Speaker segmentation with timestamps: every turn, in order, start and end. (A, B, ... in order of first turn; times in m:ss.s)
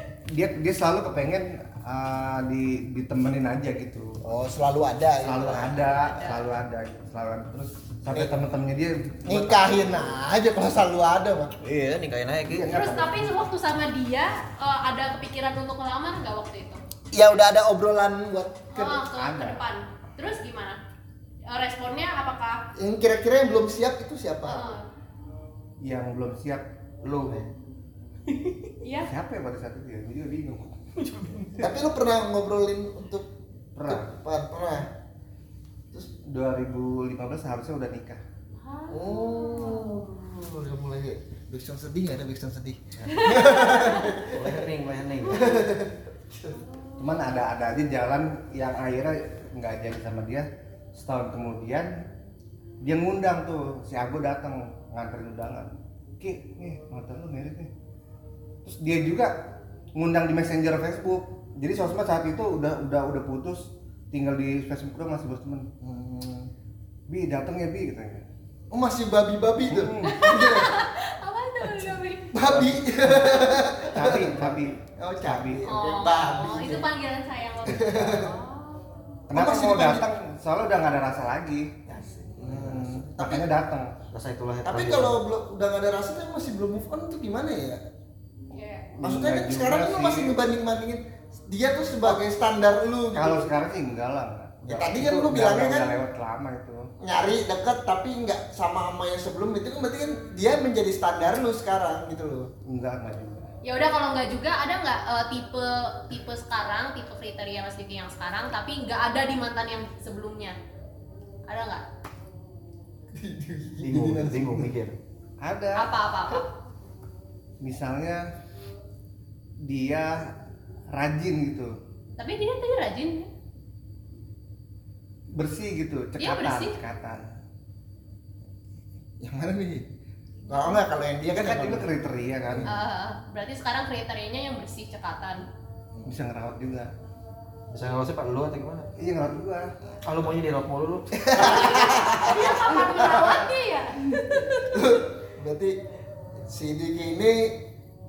0:00.3-0:04.2 A
0:04.2-0:05.9 B
0:05.2-0:10.1 A
0:05.5-0:06.5 C
0:09.3-0:11.5 B
0:11.6-0:12.7 D
0:12.5-0:13.4 A
0:12.7-0:16.8 C
0:17.1-0:19.1 B
0:18.7-0:20.8 C
0:19.1-0:19.6 A
0:21.5-0:22.6 C
0:22.8-0:24.6 B
0:24.4-0:24.8 C
0:25.8-0:27.4 A
0:28.3-0:28.7 D
0:28.8-0:29.1 C
0:29.1-0:30.8 A
0:31.0-0:31.8 D
0:31.6-0:33.3 B
0:33.8-0:34.1 A
0:33.9-0:34.9 B
0:36.2-0:38.2 A
0:38.6-0:40.1 C
0:38.9-0:44.7 B
0:43.1-0:44.3 C
0:44.3-0:45.4 D
0:45.3-0:45.6 C
0:45.3-0:46.6 B
0:46.5-0:47.4 C
0:47.0-0:51.9 A
0:52.8-0:57.7 A
0:58.6-0:59.3 A
1:00.0-1:05.6 A
1:05.8-1:06.5 B
1:07.1-1:08.2 A
1:08.7-1:10.8 B
1:09.7-1:10.3 A
1:10.0-1:12.3 C
1:12.3-1:16.9 B
1:12.4-1:15.6 A
1:13.2-1:13.7 C
1:15.6-1:18.8 C
1:17.6-1:18.3 B
1:17.7-1:18.2 A
1:19.3-1:21.7 A
1:19.3-1:20.1 B
1:21.9-1:23.2 D
1:22.4-1:23.5 B
1:22.5-1:23.9 A
1:24.1-1:25.2 D
1:24.6-1:27.8 B
1:28.5-1:28.9 C
1:28.9-1:30.4 A
1:29.0-1:33.5 B
1:33.1-1:36.9 A
1:34.6-1:35.9 B
1:37.0-1:42.5 B
1:40.1-1:40.4 C
1:42.6-1:43.5 A
1:43.6-1:50.6 C
1:51.5-1:51.8 C
1:53.1-1:54.7 B
1:53.8-1:55.0 D
1:55.4-1:55.9 A
1:55.8-1:56.5 C
1:57.6-1:58.2 A
1:59.6-2:00.2 A
2:00.9-2:01.7 A
2:02.2-2:03.3 C
2:05.4-2:07.2 A
2:06.2-2:06.8 C
2:09.2-2:09.8 B
2:10.5-2:10.8 C
2:10.5-2:11.9 B
2:11.3-2:12.7 A
2:12.4-2:12.7 B
2:12.6-2:15.4 C
2:16.1-2:16.9 A
2:17.7-2:18.9 D
2:19.0-2:19.7 A
2:20.0-2:22.2 D
2:21.2-2:23.3 B
2:21.6-2:24.8 C
2:24.5-2:25.8 B
2:26.4-2:27.6 B